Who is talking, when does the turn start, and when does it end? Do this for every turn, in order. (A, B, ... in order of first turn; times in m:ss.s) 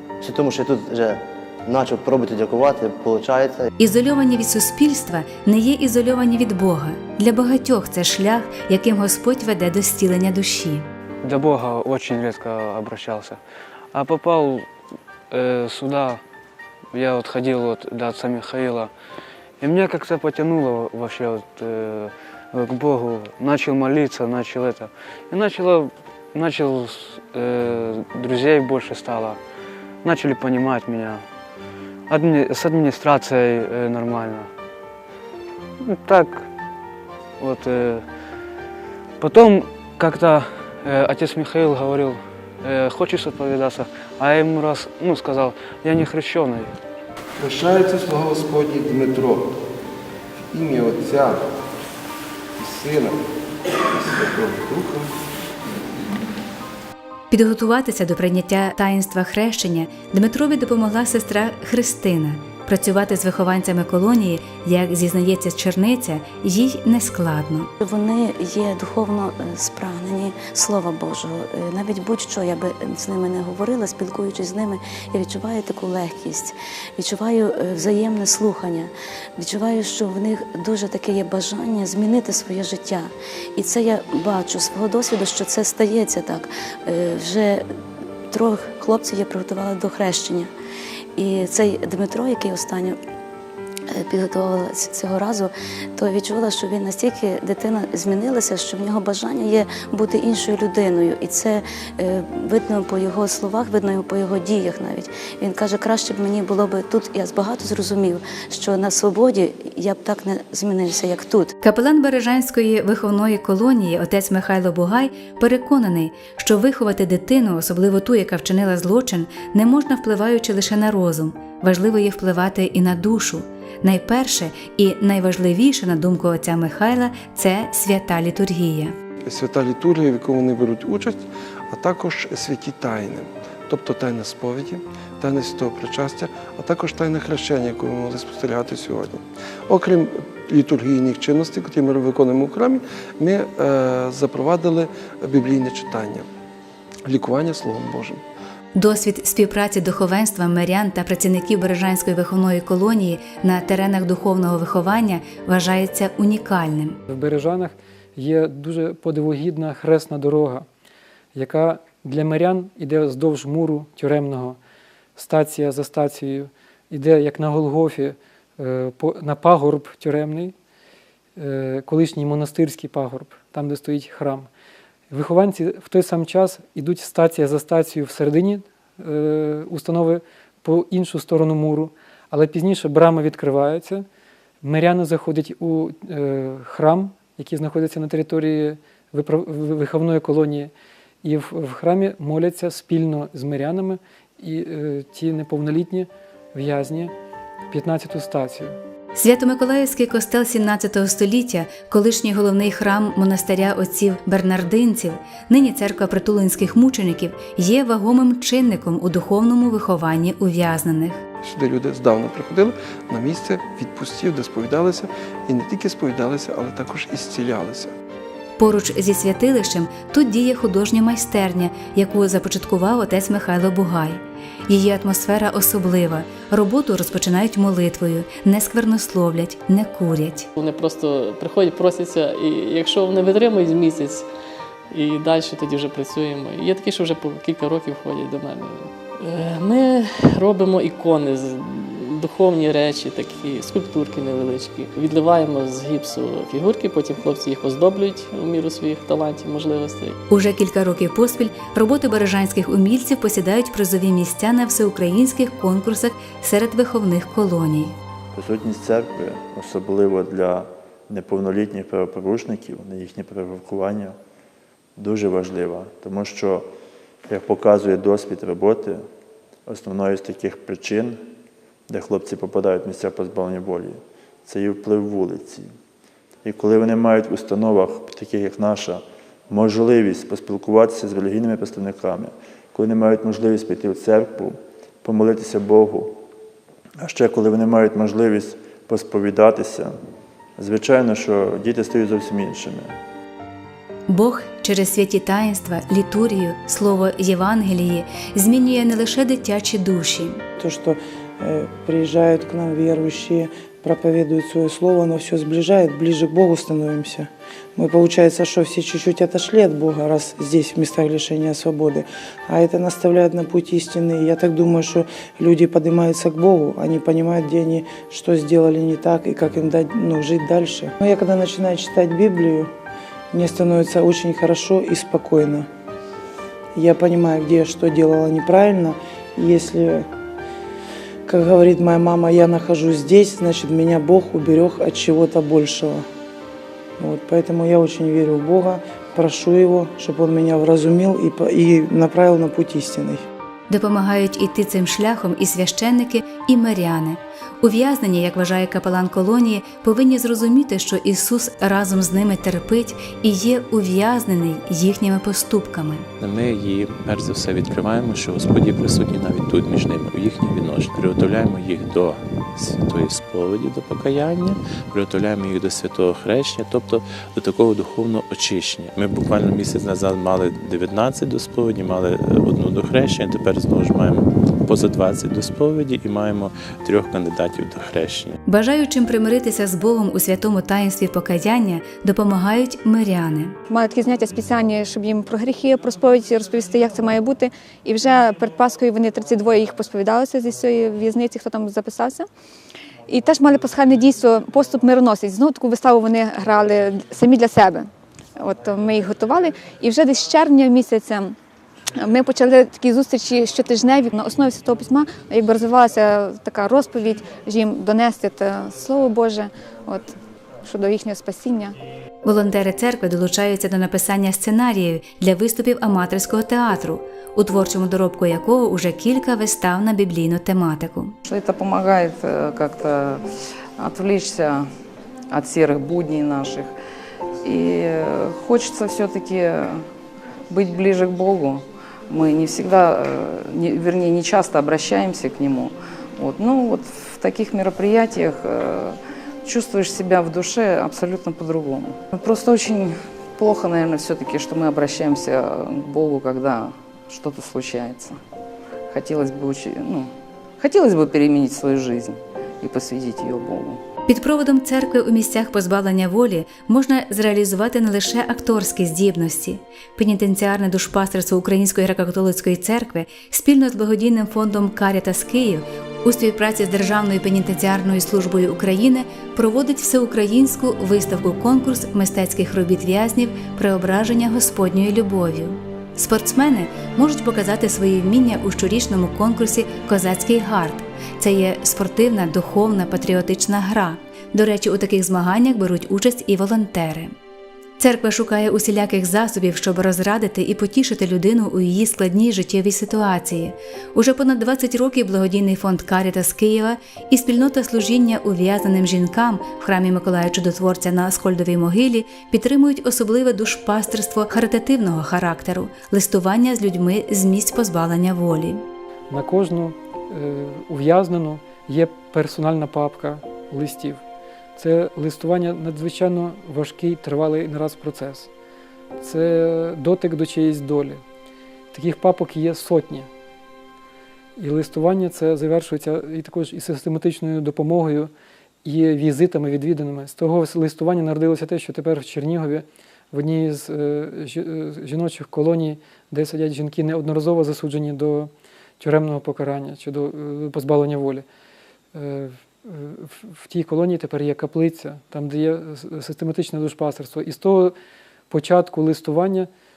0:00.2-0:03.7 A
0:03.8-0:10.9 B
0:11.2-0:13.4 C
0:13.9-0:14.7 C
0:15.3-0:16.2 C
0:16.9-0:18.9 C
0:19.6-0:29.4 C
0:30.0-0:31.2 C
0:32.1-0:34.5 C
0:35.8-0:36.5 C
0:37.4-0:38.0 C
0:39.2-0:46.7 C
0:47.4-0:49.5 D
0:50.5-0:51.4 D
0:52.6-0:53.1 D
0:53.9-0:55.1 D
0:57.3-1:07.7 B
1:07.8-1:27.6 E
1:28.3-1:30.5 E
1:31.2-1:33.0 E
1:34.0-1:51.5 E
1:51.6-2:09.0 B
2:09.2-2:26.3 D
2:27.0-2:28.2 D
2:28.7-2:37.0 B
2:37.1-2:40.7 F
2:41.3-2:44.6 F
2:45.2-2:50.5 F
2:51.4-2:54.5 F
2:55.1-3:04.0 F
3:04.6-3:10.7 F
3:11.2-3:17.1 F
3:17.7-3:18.8 F
3:19.2-3:31.2 B
3:31.4-3:37.9 D
3:38.6-3:50.5 B
3:50.6-3:54.3 G
3:54.9-4:10.2 G
4:10.3-4:18.0 B
4:18.3-4:24.2 H
4:25.0-4:26.7 H
4:27.3-4:29.0 H
4:29.7-4:31.2 H
4:31.9-4:35.7 H
4:36.4-4:46.2 H
4:47.0-4:49.9 H
4:50.6-4:52.9 H
4:54.1-5:00.4 B
5:00.6-5:22.7 I
5:23.3-5:25.7 I
5:26.7-5:30.1 I
5:31.2-5:36.0 I
5:37.0-5:43.2 I
5:43.7-5:56.1 B
5:56.2-6:18.4 J
6:18.4-6:23.6 B
6:23.7-6:32.3 K
6:33.1-6:41.4 K
6:41.9-6:51.8 K
6:52.2-7:01.1 B
7:01.2-7:03.2 L
7:03.8-7:04.7 L
7:05.3-7:06.7 L
7:07.4-7:09.8 L
7:10.5-7:28.2 L
7:28.9-7:33.8 L
7:34.1-8:07.1 B
8:07.8-8:28.6 B
8:29.1-8:34.0 F
8:34.6-8:38.3 F
8:39.0-8:41.0 F
8:41.7-8:43.1 F
8:44.4-8:48.1 F
8:48.6-9:01.2 F
9:01.9-9:07.7 F
9:08.3-9:09.5 F